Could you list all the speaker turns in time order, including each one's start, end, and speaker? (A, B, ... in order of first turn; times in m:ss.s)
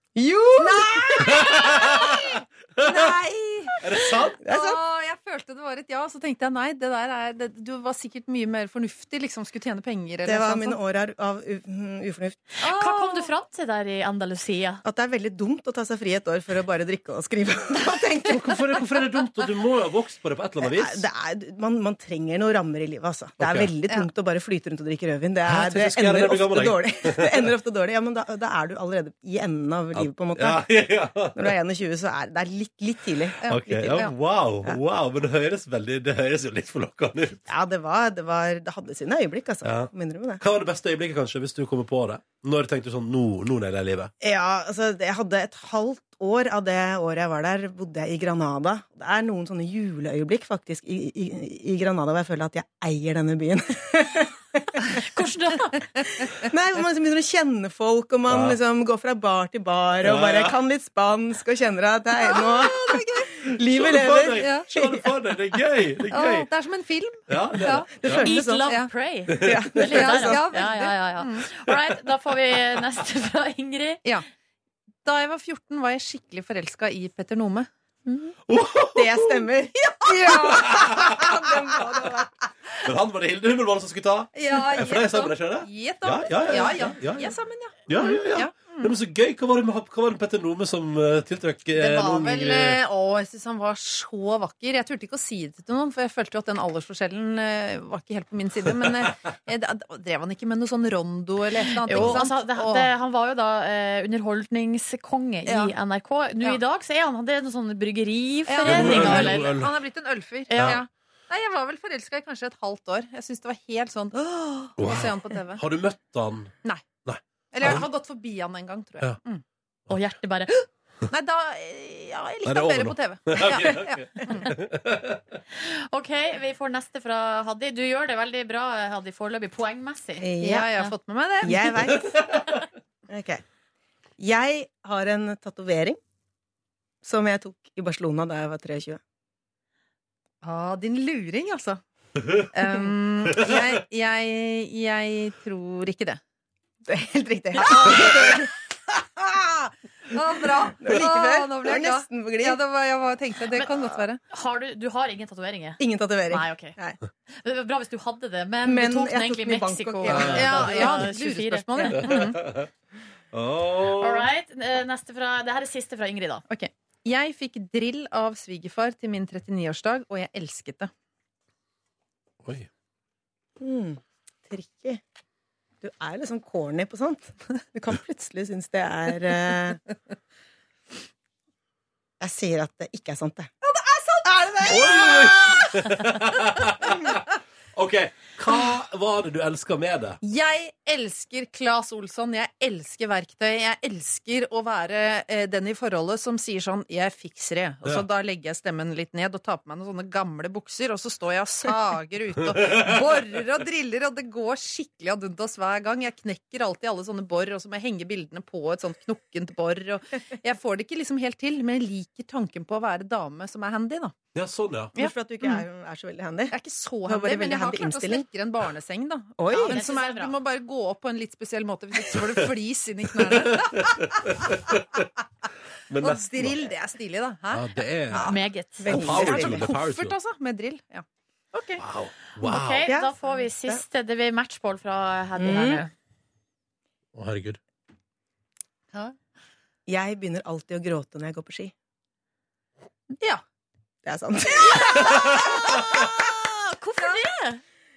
0:00.2-0:01.6 A
0:00.6-0:10.8 B
0:01.4-0:02.2 C
0:03.8-0:04.4 C
0:04.4-0:04.8 A
0:10.2-0:12.5 A
0:12.6-0:14.8 D
0:12.6-0:13.3 B
0:14.8-0:18.8 A
0:18.3-0:21.0 C
0:20.6-0:30.8 A
0:23.4-0:23.7 C
0:25.5-0:27.5 C
0:30.0-0:31.5 C
0:31.4-0:34.1 A
0:33.4-0:34.2 B
0:33.5-0:37.4 C
0:37.5-0:40.4 A
0:39.6-0:44.1 C
0:44.2-0:54.9 A
0:55.0-0:55.8 D
0:56.4-1:05.1 A
0:58.3-0:58.6 C
1:00.0-1:00.6 C
1:02.2-1:03.4 B
1:03.7-1:06.5 C
1:04.4-1:04.7 B
1:06.1-1:07.9 B
1:07.3-1:08.2 C
1:08.0-1:08.7 A
1:08.2-1:14.0 D
1:08.6-1:08.9 B
1:09.3-1:09.7 C
1:09.3-1:10.4 A
1:09.8-1:11.5 B
1:15.0-1:17.7 B
1:18.1-1:18.3 D
1:18.5-1:19.4 C
1:18.9-1:22.3 A
1:19.8-1:20.8 B
1:20.6-1:21.2 C
1:22.8-1:27.3 C
1:24.4-1:29.0 B
1:27.9-1:32.8 C
1:31.7-1:42.9 B
1:41.8-1:49.5 D
1:45.5-1:45.7 B
1:48.5-1:55.6 B
1:48.6-1:49.7 C
1:50.5-1:50.8 D
1:50.6-1:50.8 C
1:54.8-1:56.5 C
1:57.0-1:57.9 C
1:57.5-1:59.4 B
1:59.9-2:00.5 D
2:01.1-2:04.5 B
2:02.4-2:05.2 C
2:05.7-2:10.9 D
2:10.2-2:10.8 A
2:10.4-2:11.9 B
2:11.4-2:12.3 A
2:13.1-2:13.4 A
2:14.2-2:16.0 A
2:17.0-2:19.0 A
2:20.4-2:21.8 B
2:22.5-2:26.2 B
2:26.9-2:28.5 A
2:27.6-2:28.1 B
2:30.1-2:34.2 B
2:30.8-2:32.6 A
2:34.3-2:36.8 D
2:35.8-2:37.0 A
2:37.3-2:42.2 D
2:38.6-2:41.1 A
2:40.1-2:40.6 C
2:40.3-2:42.4 B
2:42.0-2:42.7 C
2:43.3-2:44.3 C
2:44.0-2:46.4 D
2:46.5-2:50.9 B
2:52.4-2:52.7 C
2:53.6-2:55.0 A
2:55.8-2:59.8 A
3:02.2-3:03.5 A
3:03.6-3:05.8 B
3:04.3-3:05.1 A
3:04.7-3:07.2 C
3:07.7-3:10.2 C
3:10.2-3:34.2 B
3:34.3-3:35.0 C
3:35.0-3:35.6 B
3:35.0-3:36.6 A
3:36.5-3:44.5 B
3:37.1-3:38.3 A
3:39.4-3:39.8 A
3:39.6-3:40.3 D
3:43.4-3:44.8 C
3:45.9-3:46.7 C
3:46.0-3:51.0 B
3:47.5-3:48.3 C
3:48.2-3:48.9 D
3:48.8-3:49.7 A
3:48.9-3:50.2 C
3:51.5-3:51.8 D
3:51.8-3:52.9 C
3:52.4-3:55.9 D
3:52.8-3:53.8 A
3:55.4-3:55.8 A
3:57.1-3:57.6 C
3:59.9-4:01.7 A
4:04.0-4:06.1 A
4:04.6-4:07.6 D